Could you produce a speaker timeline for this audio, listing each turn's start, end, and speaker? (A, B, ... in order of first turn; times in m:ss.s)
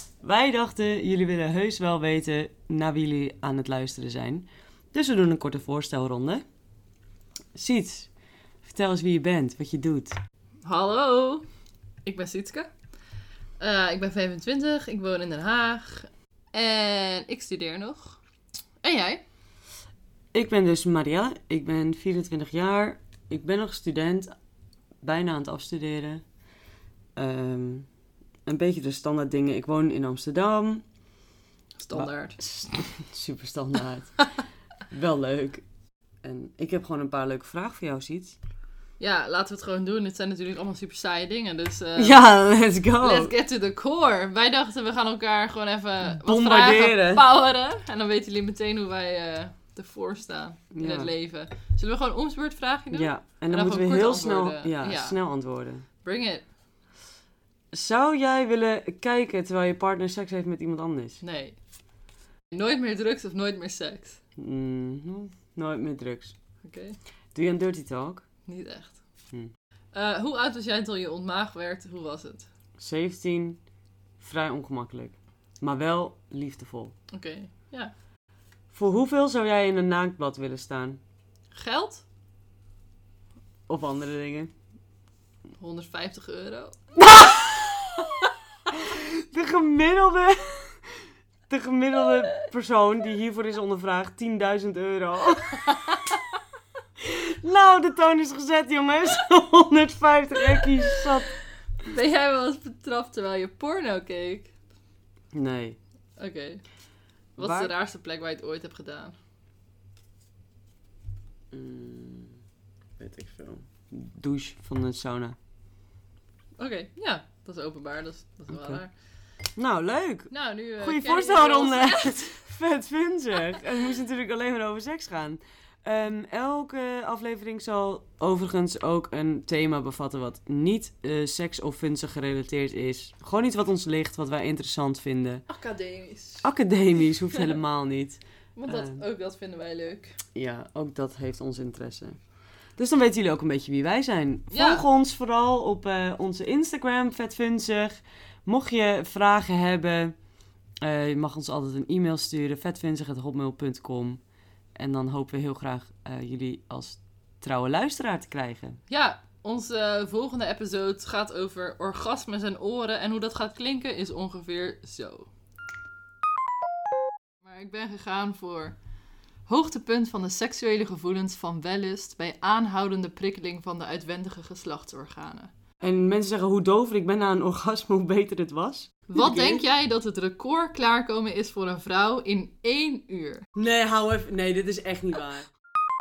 0:00.2-0:06.4 A
0:07.6-0:08.1 A
0:08.6-0:10.2 A
0:10.6-0:11.5 B
0:12.0-0:12.7 B
0:13.6-0:18.2 B
0:18.8-0:19.2 B
0:20.3-0:24.3 A
0:25.0-0:26.2 A
0:27.2-0:27.9 A
0:28.5-0:30.8 A
0:31.8-0:32.4 B
0:31.9-0:34.3 A
0:34.9-0:35.6 A
0:36.2-0:38.4 A
0:39.0-0:42.2 B
0:42.0-0:43.3 A
0:43.0-0:55.2 B
0:46.2-0:47.2 A
0:50.7-0:51.1 A
0:52.9-0:55.8 A
0:56.0-0:56.5 B
0:57.7-1:01.2 A
1:01.2-1:01.6 B
1:02.5-1:04.2 B
1:04.4-1:06.4 A
1:06.6-1:07.0 B
1:07.4-1:08.2 A
1:08.5-1:09.0 B
1:09.9-1:12.5 B
1:12.8-1:13.6 A
1:14.2-1:16.9 A
1:17.1-1:17.9 B
1:18.7-1:21.0 A
1:21.5-1:22.0 B
1:23.7-1:24.5 A
1:25.6-1:26.8 B
1:27.0-1:28.1 A
1:28.7-1:31.0 A
1:31.5-1:35.8 A
1:37.0-1:41.3 A
1:41.9-1:44.5 B
1:45.3-1:45.8 A
1:46.2-1:46.6 B
1:47.4-1:47.7 A
1:47.4-1:49.2 B
1:51.5-1:52.4 A
1:53.0-1:55.4 A
1:56.6-1:58.9 B
1:58.5-1:58.8 A
1:59.6-2:15.4 A
2:00.3-2:02.4 B
2:15.5-2:16.5 B
2:16.4-2:19.0 A
2:18.6-2:20.2 B
2:20.4-2:22.2 A
2:22.8-2:30.2 A
2:24.5-2:24.9 B
2:30.8-2:34.2 A
2:34.8-2:38.8 A
2:38.9-2:45.3 B
2:47.4-2:48.8 B
2:49.5-2:55.5 B
2:55.8-2:59.6 A
2:59.1-3:03.5 B
3:03.6-3:05.5 A